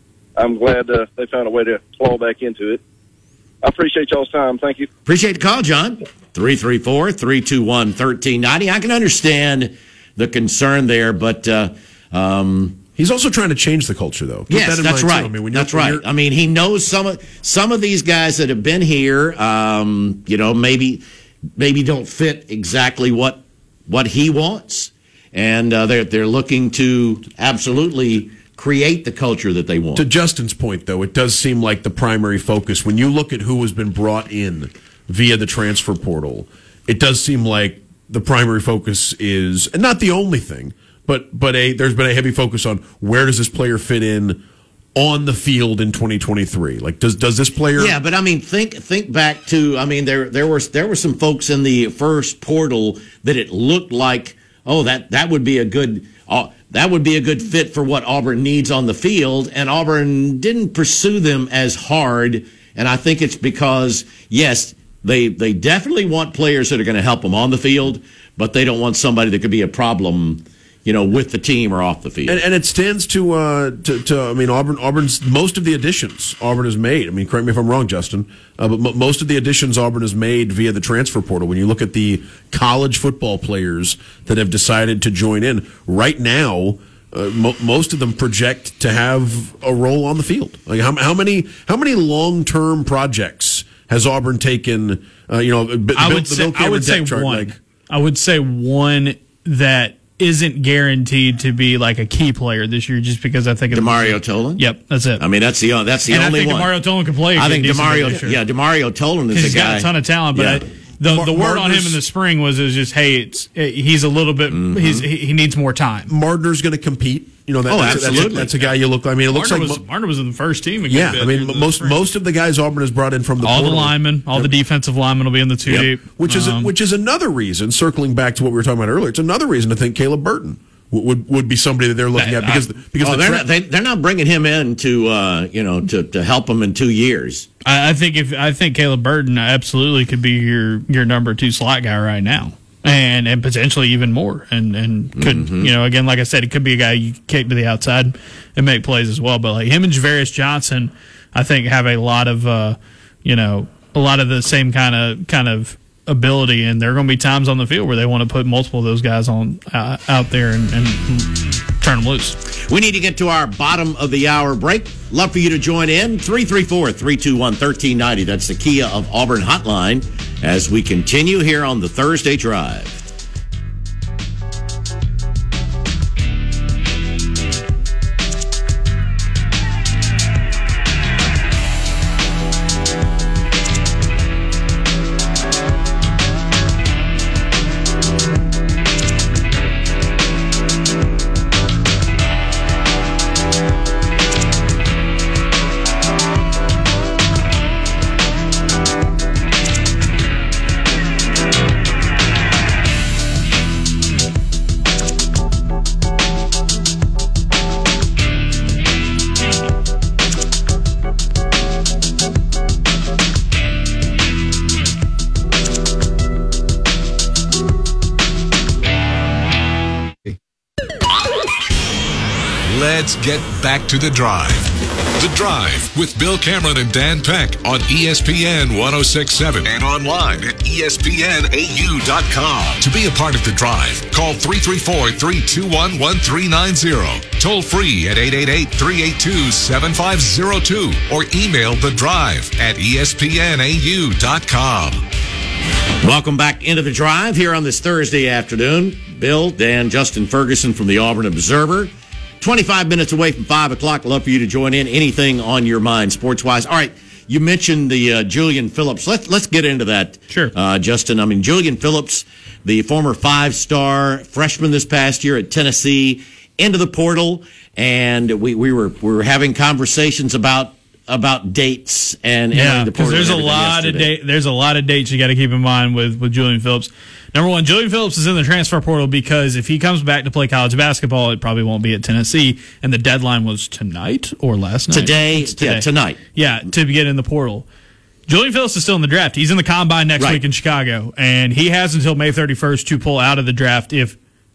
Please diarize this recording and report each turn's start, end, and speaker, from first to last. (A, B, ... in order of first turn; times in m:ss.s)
0:00.4-0:02.8 A
0:03.6-0:04.9 A
0:05.0-0:12.8 B
0:13.0-0:16.0 C
0:14.5-0:21.0 B
0:21.6-0:30.0 B
0:29.9-0:44.4 C
0:44.9-0:48.0 C
0:47.8-1:12.4 B
1:12.3-1:37.6 C
1:36.0-1:45.2 D
1:43.7-1:44.6 B
1:45.2-1:46.8 B
1:46.1-1:48.3 D
1:47.3-1:50.6 B
1:49.3-1:56.1 D
1:51.0-1:52.0 C
1:54.5-1:55.1 B
1:56.1-1:59.8 C
1:57.7-1:58.5 B
1:57.9-1:58.8 D
1:59.3-2:02.0 D
2:00.9-2:04.5 C
2:03.4-2:06.7 D
2:06.2-2:13.4 C
2:12.2-2:12.6 D
2:13.0-2:17.5 B
2:17.6-2:42.4 D
2:25.2-2:25.7 B
2:42.7-2:53.0 B
3:42.6-4:05.0 E
4:06.0-4:34.1 B
4:32.5-4:47.7 D
4:44.9-4:46.2 B
4:48.3-4:54.2 D